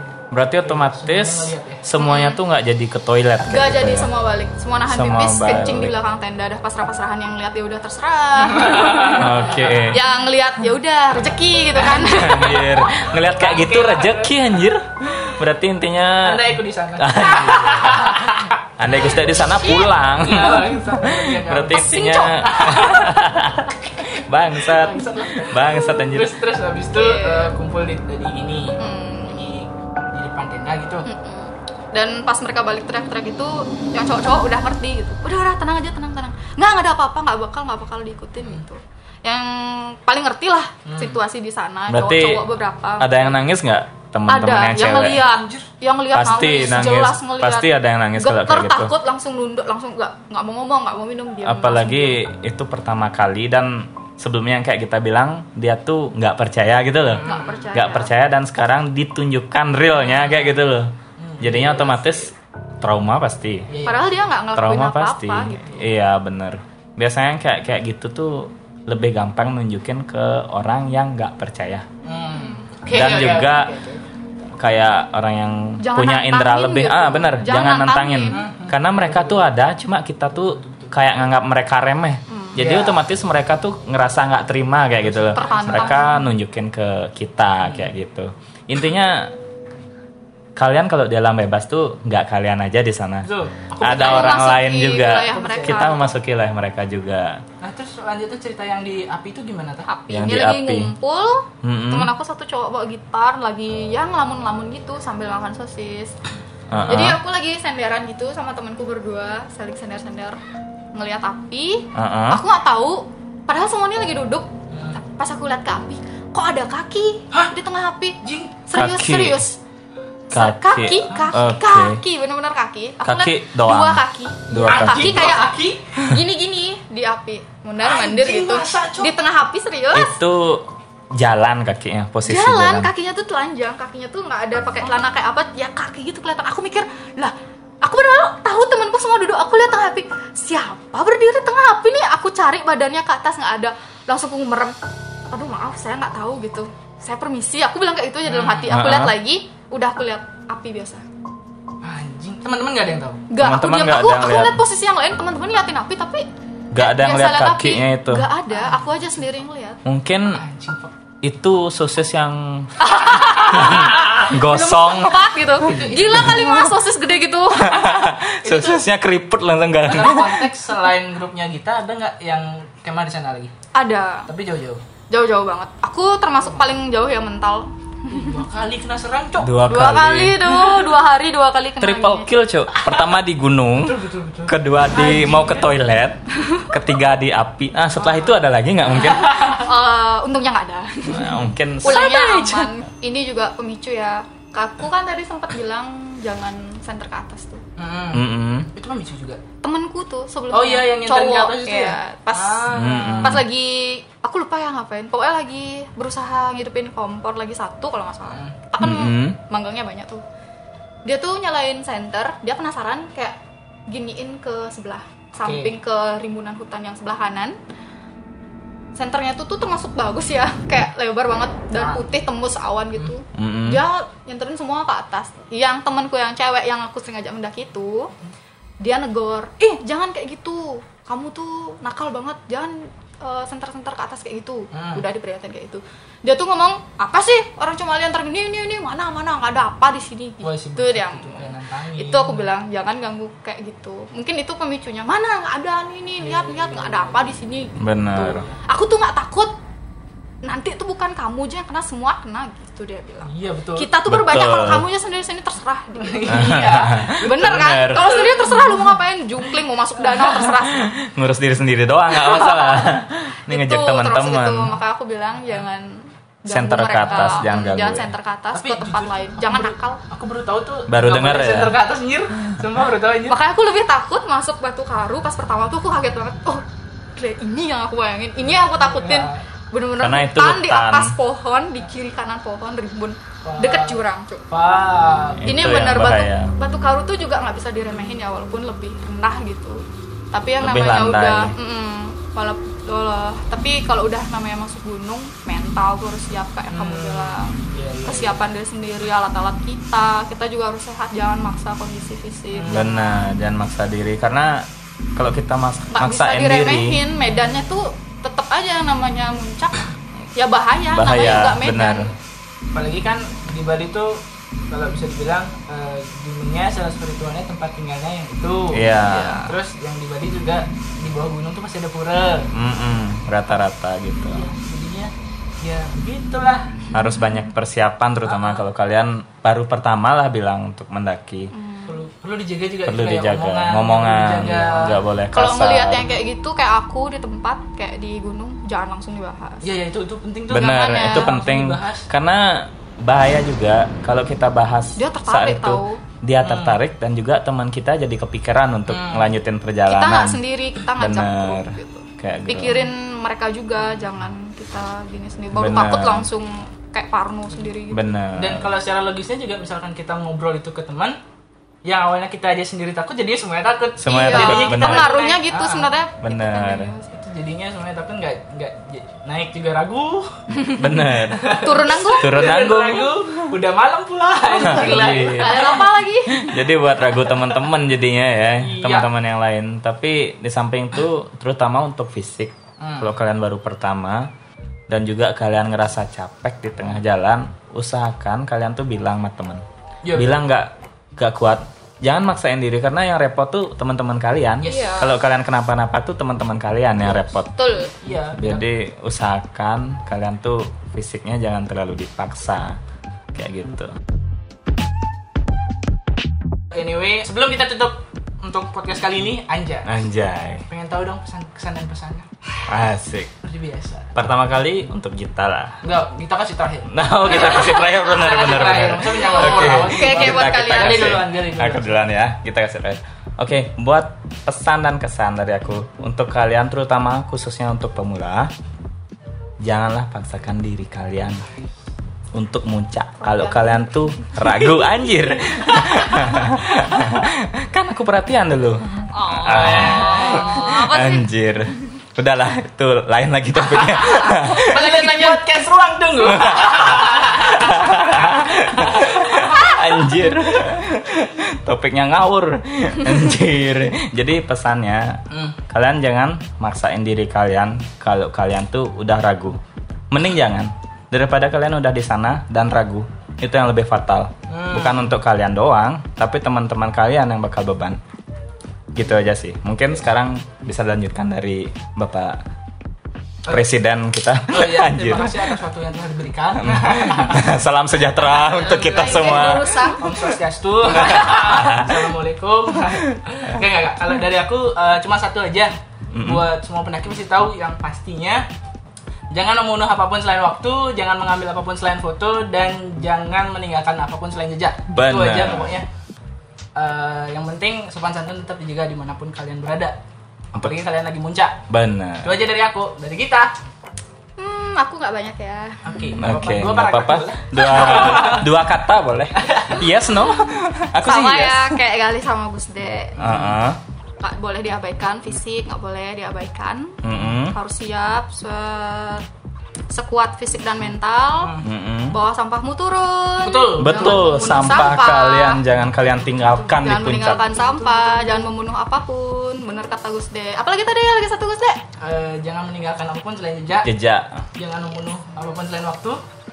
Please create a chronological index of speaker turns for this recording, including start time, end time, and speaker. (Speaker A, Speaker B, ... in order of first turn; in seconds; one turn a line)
Speaker A: 0.3-4.1
Speaker B: 0.6-1.8
Speaker C: 2.0-2.4
Speaker C: 3.5-12.9
Speaker A: 4.9-5.9
Speaker B: 8.4-9.9
Speaker A: 9.1-10.0
Speaker A: 12.0-18.2
Speaker B: 13.0-14.3
Speaker B: 16.2-19.4
Speaker A: 18.8-26.3
Speaker C: 19.5-19.9
Speaker B: 20.1-23.1
Speaker C: 21.7-22.5
Speaker B: 24.6-31.1
Speaker C: 26.9-27.5
Speaker C: 28.8-29.6
Speaker C: 31.1-43.2
Speaker B: 40.8-41.2
Speaker A: 41.9-42.4
Speaker A: 43.0-45.2
Speaker C: 44.3-52.2
Speaker B: 45.0-45.7
Speaker A: 46.1-48.9
Speaker A: 51.4-63.7
Speaker B: 57.0-57.7
Speaker C: 57.2-58.1
Speaker B: 60.2-60.5
Speaker B: 61.2-62.2
Speaker B: 63.7-64.3
Speaker C: 63.9-65.9
Speaker A: 64.5-71.8
Speaker B: 72.0-74.0
Speaker C: 72.3-72.6
Speaker A: 72.9-73.8
Speaker A: 74.6-89.3
Speaker C: 75.8-78.4
Speaker B: 78.3-79.5
Speaker B: 80.4-81.0
Speaker C: 82.3-82.6
Speaker B: 82.6-83.0
Speaker B: 85.0-86.1
Speaker C: 85.3-86.3
Speaker B: 87.6-87.9
Speaker A: 90.5-93.3
Speaker B: 93.2-94.5
Speaker A: 93.8-97.4
Speaker C: 93.9-96.1
Speaker B: 95.3-96.0
Speaker B: 97.6-99.9
Speaker C: 99.9-106.2
Speaker A: 100.1-100.9
Speaker A: 101.6-102.1
Speaker A: 106.7-107.2
Speaker C: 106.9-110.4
Speaker C: 110.9-119.6
Speaker A: 111.9-112.4
Speaker B: 114.7-115.0
Speaker B: 118.2-118.6
Speaker A: 118.7-119.4
Speaker C: 120.3-130.2
Speaker A: 120.3-122.0
Speaker B: 121.1-121.3
Speaker A: 123.0-125.4
Speaker B: 124.6-125.9
Speaker B: 127.8-129.2
Speaker A: 129.9-132.9
Speaker C: 132.2-144.8
Speaker C: 145.3-151.0
Speaker B: 148.2-148.8
Speaker A: 148.7-149.1
Speaker B: 151.8-153.2
Speaker C: 153.3-159.8
Speaker A: 153.4-154.6
Speaker A: 156.7-158.3
Speaker B: 158.5-159.0
Speaker A: 159.8-160.4
Speaker B: 160.3-160.9
Speaker A: 161.2-162.7
Speaker C: 162.8-168.8
Speaker A: 163.5-165.2
Speaker B: 165.6-166.6
Speaker A: 166.1-166.4
Speaker A: 167.6-170.4
Speaker B: 169.8-173.5
Speaker C: 173.7-174.3
Speaker B: 174.3-174.8
Speaker C: 175.1-178.4
Speaker B: 178.1-179.6
Speaker A: 179.4-180.8
Speaker C: 179.7-182.3
Speaker A: 181.8-189.5
Speaker B: 182.7-183.1
Speaker B: 183.8-185.7
Speaker B: 188.0-188.3
Speaker B: 188.9-189.7
Speaker C: 189.3-197.6
Speaker A: 191.1-192.7
Speaker B: 197.8-199.4
Speaker A: 198.1-198.7
Speaker C: 199.6-210.2
Speaker B: 200.5-203.4
Speaker A: 202.7-203.4
Speaker B: 208.3-208.5
Speaker A: 208.8-209.4
Speaker C: 211.0-213.3
Speaker C: 213.9-217.6
Speaker B: 215.4-215.7
Speaker C: 218.9-228.1
Speaker B: 221.7-222.0
Speaker A: 223.3-223.8
Speaker C: 228.8-249.5
Speaker B: 234.7-235.0
Speaker B: 240.4-242.5
Speaker B: 246.2-247.3
Speaker A: 247.8-248.4
Speaker B: 248.1-248.6
Speaker C: 250.4-260.9
Speaker B: 253.2-253.9
Speaker A: 254.1-254.8
Speaker B: 255.9-258.8
Speaker A: 256.3-258.1
Speaker A: 260.7-264.7
Speaker C: 262.2-262.9
Speaker C: 263.5-270.0
Speaker A: 266.5-268.1
Speaker B: 267.1-267.5
Speaker B: 268.5-273.4
Speaker A: 270.9-271.8
Speaker C: 273.3-276.6
Speaker C: 277.1-284.4
Speaker B: 278.4-279.4
Speaker A: 280.0-281.1
Speaker B: 283.4-285.5
Speaker A: 285.4-286.5
Speaker C: 285.5-303.0
Speaker A: 290.6-291.5
Speaker B: 296.7-298.4
Speaker B: 302.5-303.1
Speaker A: 302.7-307.0
Speaker C: 305.9-312.1
Speaker A: 310.9-312.1
Speaker B: 312.7-322.5
Speaker A: 318.7-319.5
Speaker A: 322.5-324.5
Speaker B: 324.2-326.8
Speaker A: 326.9-331.5
Speaker B: 328.2-328.6
Speaker C: 331.5-332.0
Speaker B: 331.9-335.0
Speaker A: 332.8-336.1
Speaker C: 335.3-339.7
Speaker B: 339.6-342.1
Speaker A: 340.5-350.4
Speaker C: 340.5-341.3
Speaker C: 345.0-346.0
Speaker B: 346.4-346.8
Speaker B: 348.9-349.3
Speaker C: 349.9-358.1
Speaker A: 351.0-352.9
Speaker A: 355.5-356.3
Speaker A: 357.9-358.7
Speaker B: 358.4-361.2
Speaker B: 361.8-365.9
Speaker A: 364.0-365.1
Speaker C: 364.1-367.1
Speaker A: 366.2-366.9
Speaker B: 367.1-370.4
Speaker C: 370.5-372.3
Speaker A: 370.8-373.4
Speaker B: 371.3-375.8
Speaker C: 374.6-376.5
Speaker A: 374.6-375.7
Speaker A: 376.3-384.3
Speaker B: 378.6-379.1
Speaker B: 382.8-383.1
Speaker A: 384.9-389.6
Speaker B: 390.0-390.3
Speaker A: 390.1-397.5
Speaker B: 394.6-395.0
Speaker C: 394.6-395.1
Speaker C: 397.5-397.9
Speaker B: 398.0-398.6
Speaker A: 398.4-402.8
Speaker A: 403.3-404.0
Speaker B: 406.7-410.0
Speaker A: 409.8-410.6
Speaker B: 410.7-412.3
Speaker A: 412.7-413.3
Speaker B: 413.4-414.1
Speaker A: 414.1-415.8
Speaker B: 415.8-421.9
Speaker A: 416.9-428.5
Speaker C: 419.2-421.2
Speaker A: 429.6-431.4
Speaker A: 432.3-445.4
Speaker C: 433.2-433.8
Speaker C: 439.1-441.3
Speaker B: 439.4-440.7
Speaker B: 443.8-449.5
Speaker A: 446.2-459.6
Speaker B: 455.3-455.6
Speaker A: 460.1-468.0
Speaker B: 464.5-465.1
Speaker A: 468.9-472.4
Speaker A: 473.5-475.5
Speaker B: 474.5-477.4
Speaker A: 476.6-479.9
Speaker B: 478.4-488.4
Speaker C: 478.8-480.1
Speaker A: 480.9-481.9
Speaker C: 481.1-481.4
Speaker A: 486.1-486.4
Speaker B: 489.3-495.9
Speaker A: 494.9-495.8
Speaker B: 496.8-500.0
Speaker B: 500.6-501.6
Speaker A: 501.7-502.3
Speaker B: 502.2-503.5
Speaker C: 504.4-506.1
Speaker B: 505.8-508.5
Speaker A: 506.2-511.8
Speaker C: 507.8-508.3
Speaker B: 509.4-509.8
Speaker C: 511.0-513.2
Speaker B: 513.2-513.6
Speaker A: 513.2-513.8
Speaker C: 514.2-519.2
Speaker A: 517.0-517.6
Speaker C: 519.9-521.5
Speaker B: 521.4-521.7
Speaker A: 521.6-522.1
Speaker C: 522.1-525.6
Speaker B: 523.4-524.9
Speaker A: 523.8-527.5
Speaker C: 526.7-531.8
Speaker B: 527.6-528.4
Speaker B: 532.0-533.9
Speaker A: 533.8-534.4
Speaker B: 534.6-536.2